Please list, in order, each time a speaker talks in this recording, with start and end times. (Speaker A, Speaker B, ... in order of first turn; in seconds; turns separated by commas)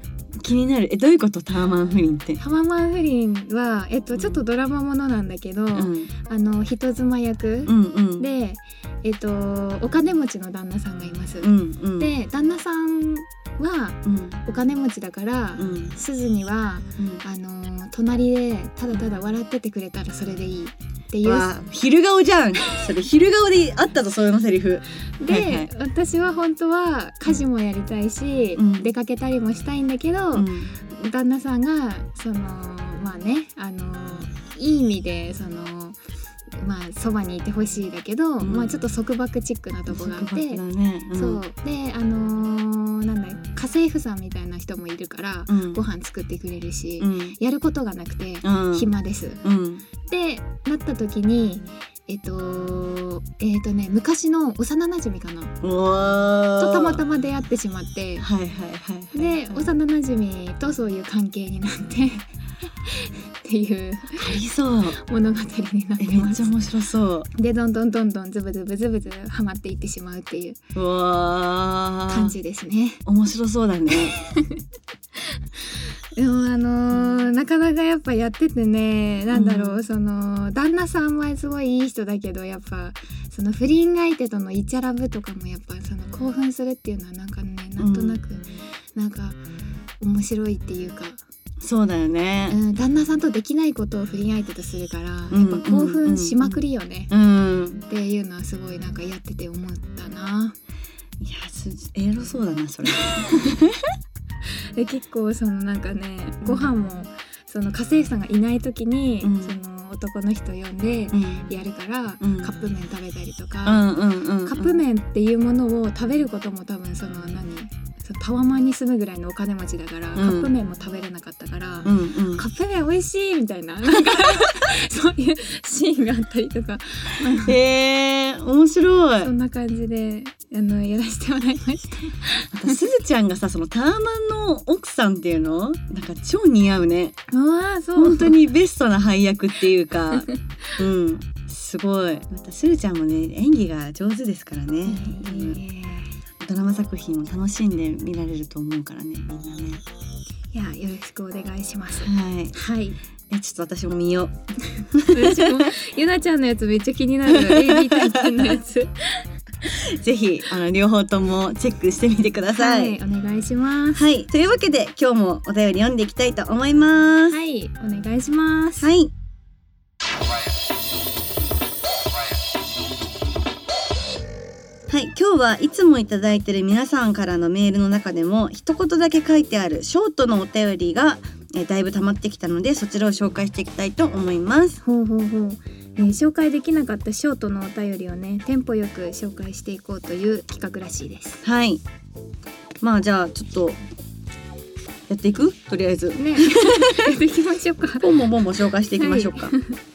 Speaker A: 0.4-2.4, Speaker B: 2.4-21.5, Speaker A: 4.2-4.4, Speaker A: 5.7-6.1, Speaker A: 7.7-8.3, Speaker A: 11.4-12.1, Speaker A: 14.1-14.4, Speaker A: 15.6-15.9, Speaker A: 21.2-25.7, Speaker B: 25.2-36.0, Speaker A: 28.6-28.9, Speaker A: 30.4-30.7, Speaker B: 36.6-40.6, Speaker A: 38.4-38.7, Speaker A: 39.9-41.4, Speaker B: 41.1-49.4, Speaker A: 45.5-45.8, Speaker A: 47.0-47.4, Speaker A: 48.4-48.9, Speaker A: 49.4-49.9, Speaker B: 50.0-55.5, Speaker A: 55.6-57.0, Speaker B: 56.6-58.3, Speaker A: 58.2-59.7, Speaker B: 59.1-62.3, Speaker B: 62.9-64.3, Speaker A: 64.2-65.0, Speaker B: 65.0-66.5, Speaker A: 66.0-67.3, Speaker B: 67.4-70.6, Speaker A: 70.8-72.4, Speaker B: 72.1-73.0, Speaker A: 73.1-74.2, Speaker B: 74.2-74.6, Speaker B: 76.2-89.4, Speaker A: 76.9-77.3, Speaker A: 79.3-79.8, Speaker A: 87.8-88.2, Speaker B: 90.0-91.2, Speaker A: 91.6-92.6, Speaker B: 92.5-97.1, Speaker A: 95.3-96.6, Speaker A: 97.1-97.8, Speaker B: 97.9-100.5, Speaker A: 101.2-103.8, Speaker B: 104.8-113.9, Speaker A: 106.4-106.7, Speaker A: 109.2-109.5, Speaker A: 111.1-111.5, Speaker A: 112.2-112.5, Speaker A: 113.7-114.8, Speaker B: 114.4-127.6, Speaker A: 120.2-120.5, Speaker A: 121.8-122.4, Speaker A: 124.0-124.7, Speaker A: 127.2-129.3, Speaker B: 129.2-132.8, Speaker A: 132.5-137.2, Speaker B: 137.3-138.4, Speaker A: 138.0-145.6, Speaker B: 144.9-146.1, Speaker A: 146.4-149.8, Speaker B: 150.5-153.0, Speaker A: 152.0-152.6, Speaker A: 153.3-154.4, Speaker B: 154.8-159.2, Speaker A: 154.9-155.7, Speaker A: 157.3-158.6, Speaker A: 159.7-163.0, Speaker B: 162.6-164.1, Speaker A: 163.9-167.4, Speaker B: 167.3-168.9, Speaker A: 168.8-169.1, Speaker A: 174.9-184.8, Speaker B: 184.8-191.4, Speaker A: 191.4-191.8, Speaker A: 192.8-193.8, Speaker A: 195.1-197.2, Speaker B: 196.2-198.1, Speaker A: 198.0-199.6, Speaker B: 199.0-199.8